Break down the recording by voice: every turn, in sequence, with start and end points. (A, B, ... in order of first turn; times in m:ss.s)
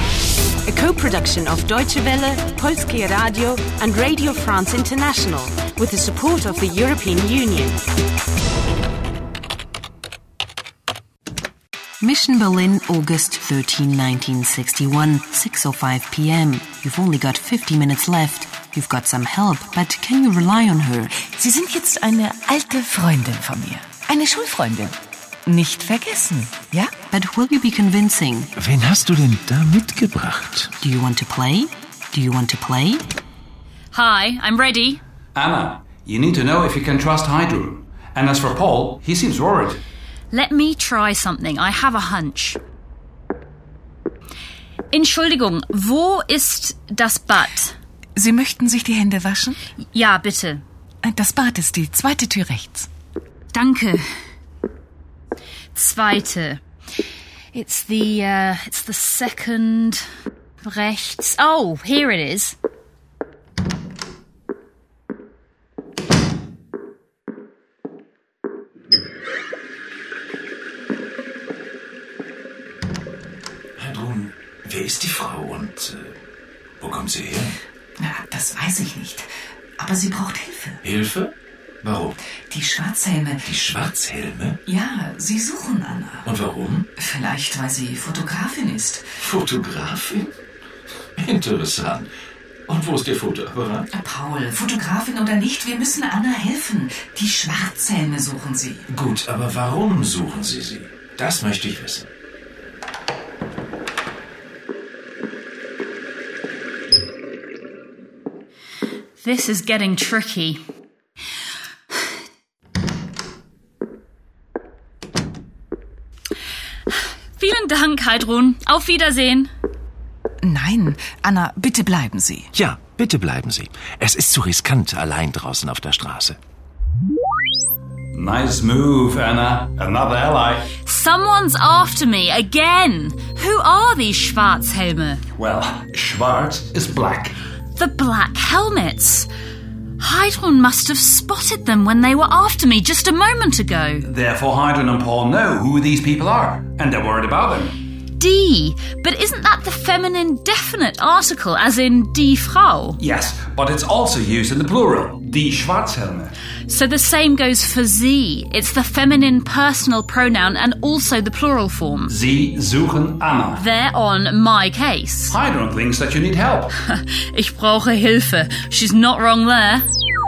0:00.6-0:07.8 A
0:12.0-0:21.2 B
0:21.2-0:26.9 C
0:27.1-0:28.5 B
0:28.6-0:30.7 D
0:30.8-0:33.0 B
0:33.9-0:35.0 E
0:35.3-0:39.8 F
0:40.3-0:42.6 E
0:44.9-0:47.7 E
0:48.2-0:49.6 C
0:49.9-0:50.6 E
0:51.0-0:52.9 C
0:53.5-0:54.0 E
0:55.7-0:56.6 E
0:57.5-1:00.0 E
1:00.6-1:02.6 E
1:13.8-1:16.2 D
1:16.8-1:17.6 D
1:18.0-1:19.3 C
1:19.8-1:20.8 C
1:20.8-1:22.1 D
1:22.5-1:23.6 C
1:23.4-1:24.6 D
1:24.6-1:26.3 C
1:26.2-1:26.9 D
1:27.0-1:29.1 C
1:29.2-1:30.3 D
1:31.2-1:32.1 D
1:32.7-1:33.9 D
1:33.9-1:38.8 C
1:38.9-1:42.1 D
1:49.2-1:50.6 E
1:57.4-1:59.5 E
2:00.4-2:02.5 C
2:02.5-2:06.4 D
2:08.1-2:10.7 F
2:10.8-2:15.2 E
2:15.4-2:17.4 F
2:17.7-2:19.3 E
2:20.0-2:24.0 E
2:24.0-2:27.7 F
2:28.1-2:33.0 E
2:33.0-2:36.3 F
2:36.7-2:42.1 E
2:42.1-2:43.6 F
2:43.6-2:45.4 E
2:45.3-2:46.7 F
2:46.8-2:49.8 E